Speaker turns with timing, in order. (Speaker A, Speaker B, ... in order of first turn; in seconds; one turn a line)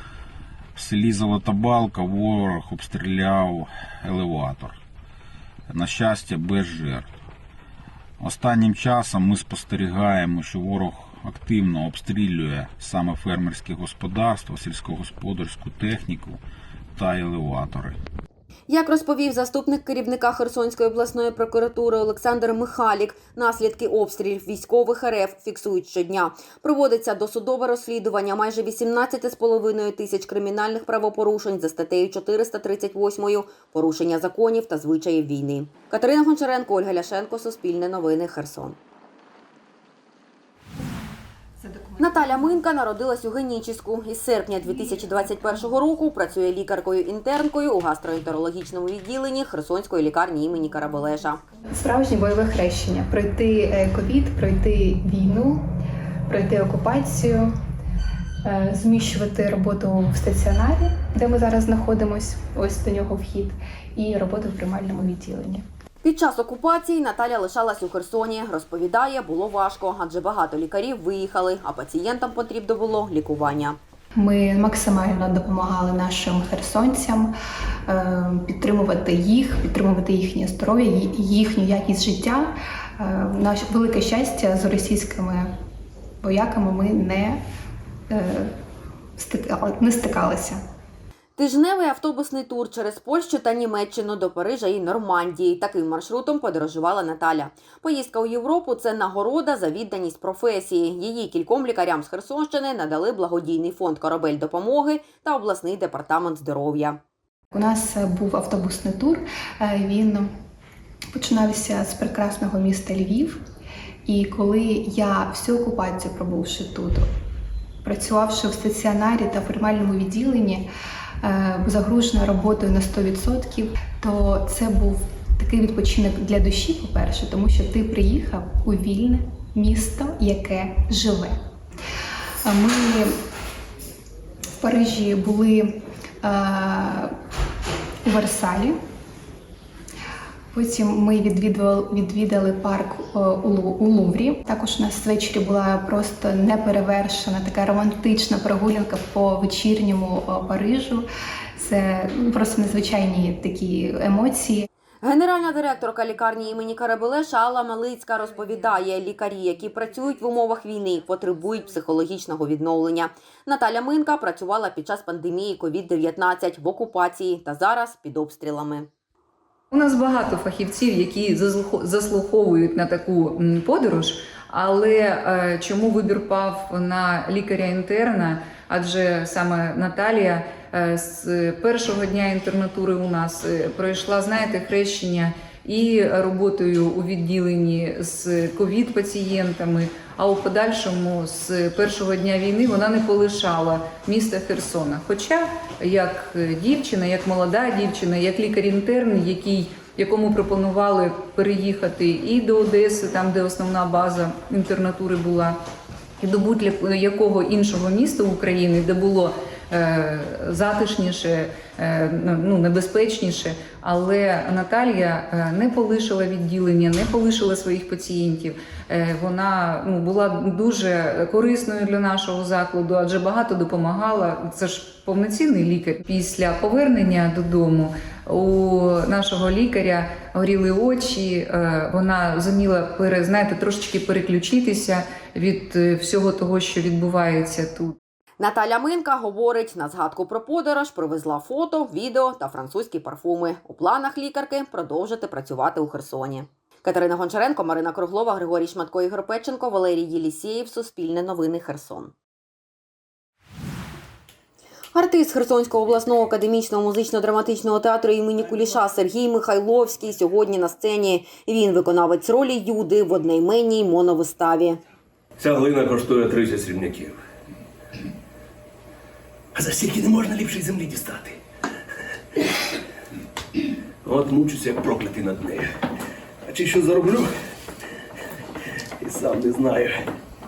Speaker A: 0.8-4.8
Speaker A: 5.7-7.2
Speaker A: 8.2-16.4
Speaker A: 16.9-18.0
Speaker B: 18.7-38.8
Speaker C: 41.6-42.3
Speaker B: 42.0-51.4
Speaker C: 51.7-55.6
Speaker C: 56.3-57.5
Speaker C: 58.4-65.6
Speaker B: 66.0-73.8
Speaker C: 74.2-77.3
Speaker C: 77.9-85.5
Speaker C: 86.2-87.4
Speaker C: 88.1-88.5
Speaker C: 89.2-90.6
Speaker B: 91.4-107.0
Speaker C: 107.5-110.3
Speaker C: 111.1-113.4
Speaker C: 114.0-117.1
Speaker C: 117.8-120.7
Speaker C: 121.2-131.4
Speaker C: 132.4-133.1
Speaker C: 134.6-137.1
Speaker C: 138.0-138.8
Speaker C: 140.5-151.0
Speaker C: 151.6-154.7
Speaker B: 155.0-168.9
Speaker D: 169.7-205.6
Speaker D: 206.2-237.9
Speaker B: 238.4-252.1
Speaker B: 254.9-264.8
Speaker E: 265.4-267.1
Speaker E: 269.5-271.4
Speaker E: 274.0-275.7
Speaker E: 276.4-277.3
Speaker E: 279.0-280.0